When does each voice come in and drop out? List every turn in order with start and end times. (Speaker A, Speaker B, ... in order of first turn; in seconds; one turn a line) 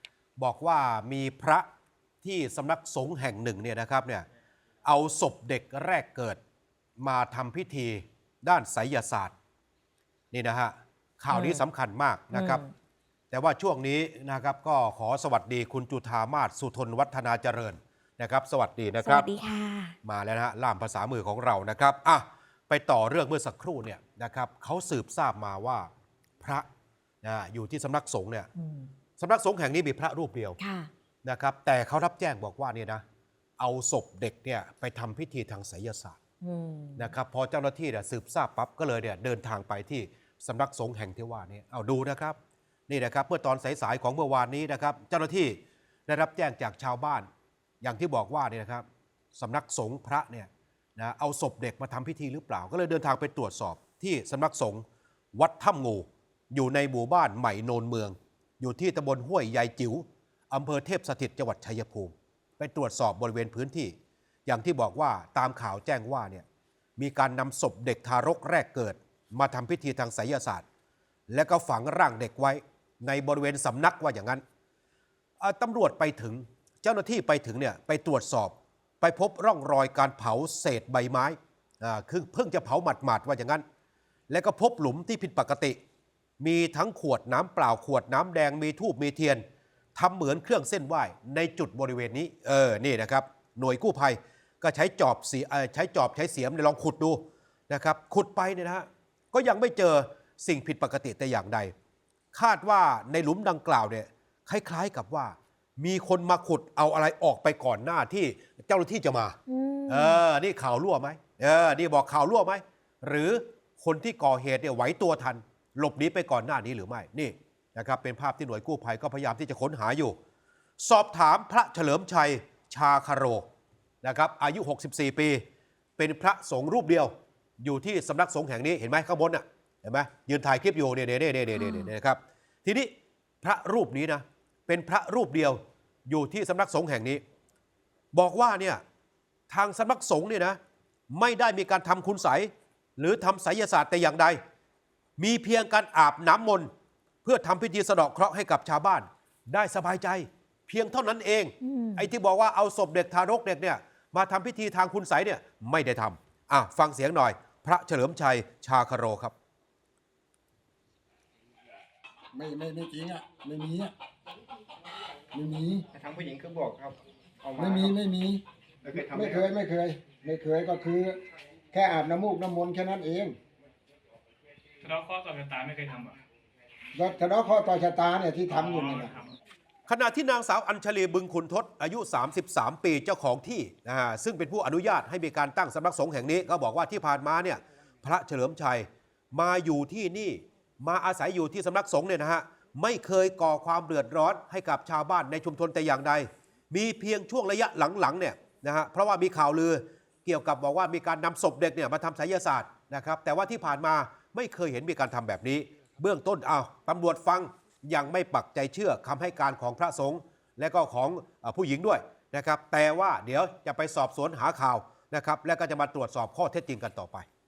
Speaker A: 0.4-1.6
Speaker A: 2.2-4.2
Speaker A: 4.8-6.4
Speaker A: 7.0-9.3
Speaker A: 10.3-12.6
Speaker B: 11.3-11.6
Speaker B: 12.3-12.7
Speaker A: 13.3-19.3
Speaker B: 19.0-19.9
Speaker A: 20.0-25.9
Speaker A: 26.4-26.6
Speaker A: 27.2-28.5
Speaker B: 28.6-28.9
Speaker A: 29.2-30.6
Speaker B: 30.6-30.9
Speaker A: 31.2-33.0
Speaker A: 33.6-36.2
Speaker B: 36.4-37.1
Speaker A: 37.0-42.4
Speaker A: 42.9-47.3
Speaker A: 47.8-63.9
Speaker A: 64.5-66.4
Speaker A: 67.0-70.6
Speaker A: 71.3-74.4
Speaker A: 75.4-83.6
Speaker A: 84.3-85.8
Speaker A: 86.4-89.4
Speaker A: 90.0-101.7
Speaker A: 102.3-120.2
Speaker B: 109.5-110.2
Speaker A: 120.8-123.5
Speaker A: 124.0-125.4
Speaker A: 126.0-137.2
Speaker B: 131.5-131.9
Speaker A: 138.1-138.8
Speaker A: 139.5-140.6
Speaker A: 141.1-144.4
Speaker A: 145.2-146.7
Speaker A: 147.2-159.3
Speaker B: 151.6-152.1
Speaker C: 162.3-163.9
Speaker C: 165.3-165.8
Speaker D: 165.9-167.9
Speaker C: 167.6-168.4
Speaker D: 168.8-169.5
Speaker C: 169.0-171.2
Speaker C: 171.7-173.3
Speaker E: 174.8-176.2
Speaker C: 176.9-179.1
Speaker E: 178.6-179.3
Speaker A: 179.9-217.2